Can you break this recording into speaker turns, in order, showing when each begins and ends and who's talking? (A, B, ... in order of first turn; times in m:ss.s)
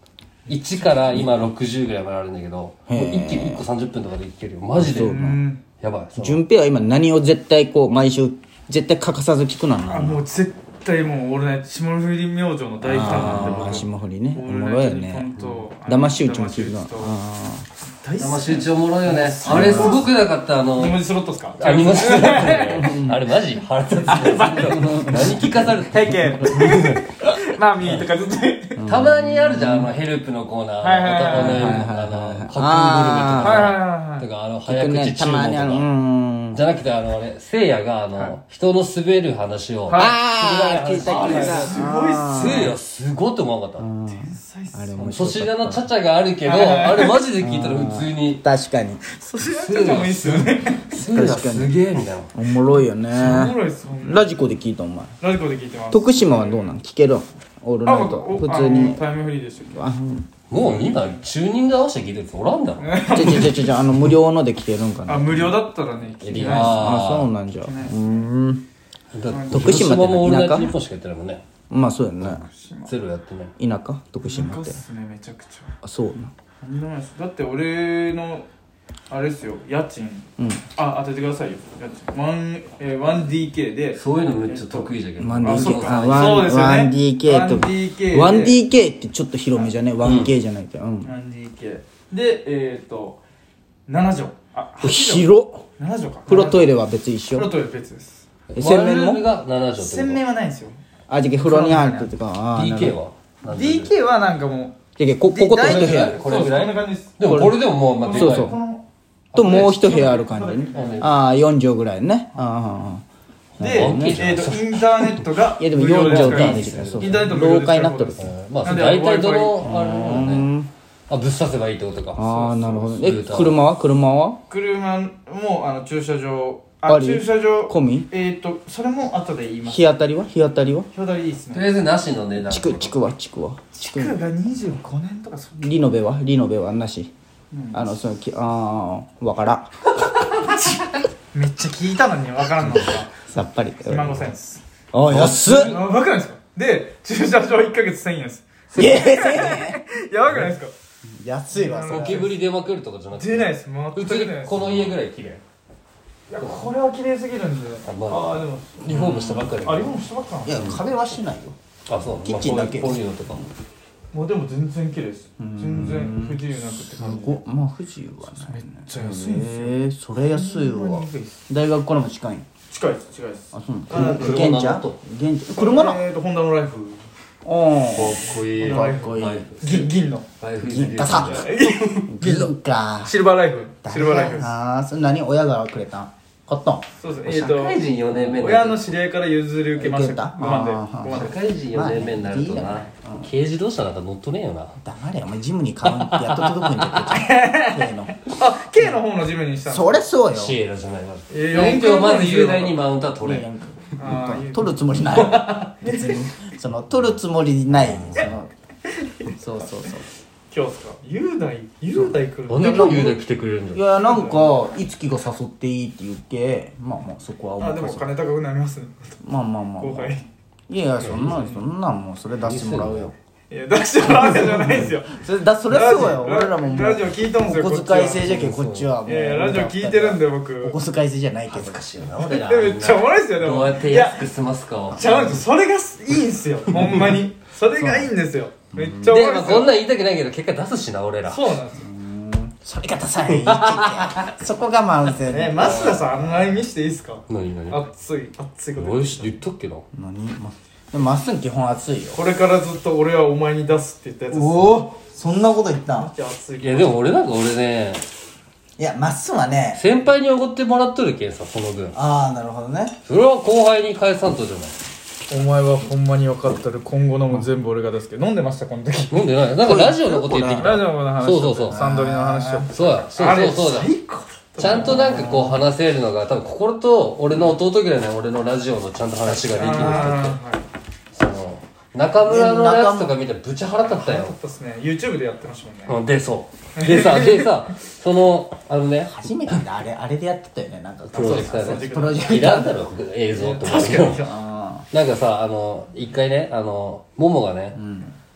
0:00.5-0:01.2 A
0:00.5-0:05.2 B
0:02.9-0:03.6 C
0:04.7-0:05.4 C
0:05.0-0:05.6 A
0:05.8-0:06.4 B
0:06.2-0:10.2 C
0:09.9-0:17.1 A
0:12.8-0:17.7 C
0:12.9-0:13.8 B
0:17.8-0:20.1 A
0:18.2-0:21.0 B
0:19.4-0:20.0 C
0:20.7-0:23.0 A
0:21.6-0:27.0 B
0:22.7-0:23.2 C
0:24.1-0:28.8 A
0:24.8-0:25.3 C
0:28.8-0:29.9 C
0:28.8-0:35.9 B
0:30.8-0:31.9 A
0:31.3-0:33.7 C
0:33.4-0:34.3 A
0:34.7-0:36.6 C
0:36.5-0:43.9 B
0:39.9-0:40.2 A
0:40.0-0:42.7 C
0:41.0-0:42.7 A
0:43.8-0:45.9 C
0:44.0-0:45.1 A
0:45.0-0:48.4 B
0:46.4-0:47.2 A
0:47.4-0:49.0 C
0:49.1-0:50.9 A
0:49.4-0:52.3 B
0:50.9-0:51.7 C
0:52.3-0:55.1 C
0:53.1-0:54.4 A
0:55.2-0:56.7 A
0:55.9-0:59.0 C
0:57.8-0:59.8 A
0:59.7-1:00.3 C
1:00.5-1:03.0 B
1:02.8-1:03.7 A
1:03.1-1:05.6 C
1:05.0-1:08.3 A
1:06.2-1:07.3 B
1:06.3-1:08.6 C
1:09.1-1:11.4 B
1:09.3-1:09.8 A
1:09.5-1:10.8 C
1:11.7-1:12.4 C
1:12.2-1:12.9 A
1:12.8-1:13.5 B
1:13.6-1:14.8 C
1:14.2-1:15.7 A
1:15.8-1:16.3 C
1:16.6-1:18.5 A
1:19.1-1:28.6 A
1:20.4-1:20.6 C
1:24.0-1:26.4 B
1:25.2-1:31.1 C
1:30.0-1:30.3 B
1:31.0-1:33.2 A
1:33.9-1:36.7 A
1:34.8-1:35.6 C
1:36.3-1:37.5 C
1:37.3-1:38.2 A
1:38.5-1:40.2 B
1:38.6-1:39.2 C
1:39.8-1:40.8 A
1:41.1-1:43.0 C
1:41.4-1:42.1 A
1:42.5-1:44.0 B
1:43.5-1:44.8 A
1:45.0-1:46.3 C
1:45.2-1:48.6 B
1:45.6-1:48.8 A
1:47.2-1:47.6 C
1:48.1-1:48.6 C
1:49.3-1:51.2 B
1:49.3-1:51.1 A
1:49.3-1:53.0 C
1:53.6-1:54.5 C
1:53.6-1:59.7 A
1:53.6-1:55.1 B
1:55.6-1:58.3 C
1:56.0-1:57.3 B
1:58.2-2:00.5 B
1:59.6-2:00.7 C
2:01.1-2:03.6 B
2:02.2-2:04.4 C
2:02.2-2:02.9 A
2:04.5-2:09.9 A
2:06.8-2:08.1 C
2:09.6-2:10.9 C
2:10.9-2:11.7 A
2:11.5-2:12.9 B
2:12.4-2:14.2 C
2:13.8-2:15.8 A
2:15.6-2:17.1 C
2:17.5-2:17.9 A
2:17.7-2:19.7 C
2:20.4-2:20.8 A
2:21.3-2:23.2 A
2:23.3-2:24.3 C
2:23.8-2:30.7 A
2:24.9-2:25.8 C
2:25.1-2:25.4 B
2:28.7-2:29.8 C
2:31.0-2:32.3 C
2:31.5-2:32.4 A
2:31.8-2:35.4 B
2:33.1-2:34.9 A
2:36.3-2:40.8 A
2:36.4-2:36.7 B
2:37.8-2:40.0 B
2:38.8-2:39.6 C
2:40.4-2:41.6 C
2:41.9-2:43.4 B
2:42.2-2:43.4 C
2:44.1-2:47.4 A
2:45.4-2:52.4 C
2:48.2-2:49.7 A
2:50.2-2:51.4 A
2:52.7-2:54.5 A
2:53.5-2:56.0 C
2:53.9-2:55.0 B
2:55.5-2:57.0 A
2:57.4-2:59.5 C
2:57.9-3:02.0 B
2:58.6-3:00.3 A
3:00.6-3:01.5 C
3:01.1-3:04.5 A
3:02.1-3:03.1 C
3:03.8-3:06.8 C
3:07.0-3:11.4 A
3:07.2-3:08.9 B
3:09.8-3:13.3 C
3:11.1-3:14.8 B
3:14.8-3:18.2 C
3:16.1-3:16.9 B
3:17.1-3:20.0 A
3:19.6-3:20.6 C
3:20.3-3:23.5 B
3:21.3-3:22.8 A
3:23.2-3:28.5 C
3:24.0-3:26.2 A
3:29.0-3:29.3 A
3:29.3-3:30.1 C
3:30.5-3:33.2 A
3:32.5-3:33.8 B
3:32.6-3:33.2 C
3:33.7-3:38.1 C
3:33.9-3:34.6 A
3:37.6-3:39.2 A
3:39.2-3:40.1 C
3:39.8-3:40.3 A
3:40.7-3:43.1 C
3:41.0-3:41.5 B
3:41.2-3:41.6 A
3:42.4-3:43.1 B
3:43.5-3:48.3 A
3:44.2-3:51.8 C
3:48.2-3:48.9 B
3:49.0-3:50.8 A
3:51.5-3:55.4 B
3:52.1-3:54.3 A
3:54.9-3:59.7 A
3:57.6-3:58.1 C
3:58.7-3:59.2 C
3:59.0-4:01.5 B
4:01.2-4:01.8 A
4:01.8-4:06.1 C
4:03.4-4:04.2 B
4:05.2-4:09.3 A
4:07.3-4:07.8 B
4:08.8-4:09.8 B
4:09.9-4:12.2 C
4:12.1-4:14.8 A
4:14.3-4:16.1 C
4:15.9-4:17.1 A
4:16.6-4:18.0 B
4:18.8-4:19.8 C
4:19.7-4:22.0 B
4:21.9-4:23.0 C
4:23.0-4:24.8 B
4:25.3-4:35.6 A
4:29.1-4:31.8 B
4:31.7-4:32.7 C
4:32.7-4:33.9 B
4:34.6-4:40.4 B
4:34.6-4:35.3 C
4:39.3-4:40.7 A
4:41.1-4:44.4 B
4:42.2-4:43.2 C
4:43.8-4:46.0 A
4:45.8-4:49.6 B
4:46.8-4:47.7 A
4:49.0-4:52.9 C
4:51.1-4:54.3 B
4:51.1-4:52.5 A
4:53.3-4:54.4 A
4:54.2-4:54.9 C
4:54.9-4:57.8 B
4:57.7-4:58.1 C